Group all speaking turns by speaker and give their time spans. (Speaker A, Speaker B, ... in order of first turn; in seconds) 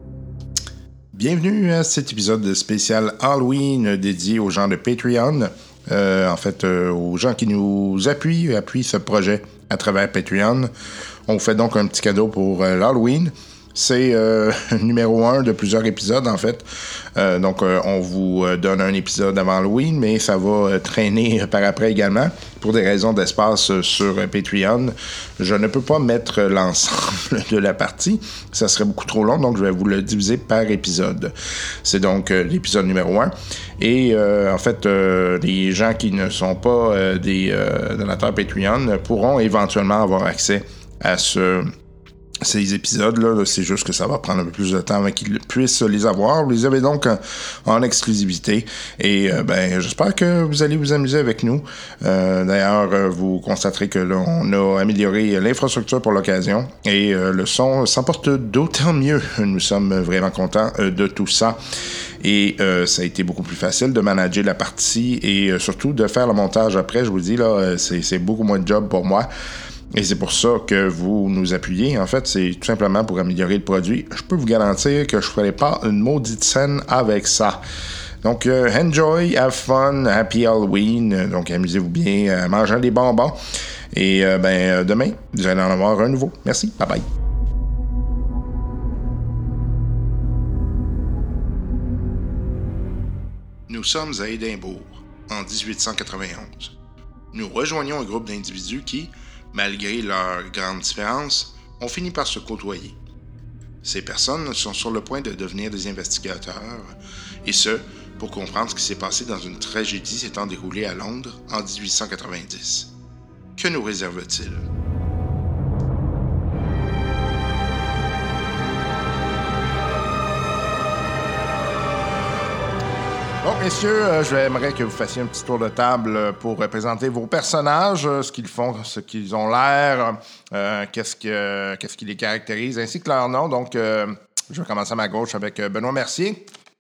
Speaker A: 1.1-10.7, 11.3-41.7, 42.4-61.6, 62.2-69.3, 69.9-77.6, 78.2-83.4, 83.9-87.0, 93.7-96.7, 97.3-103.0, 103.8-112.9, 113.6-114.6, 123.4-136.4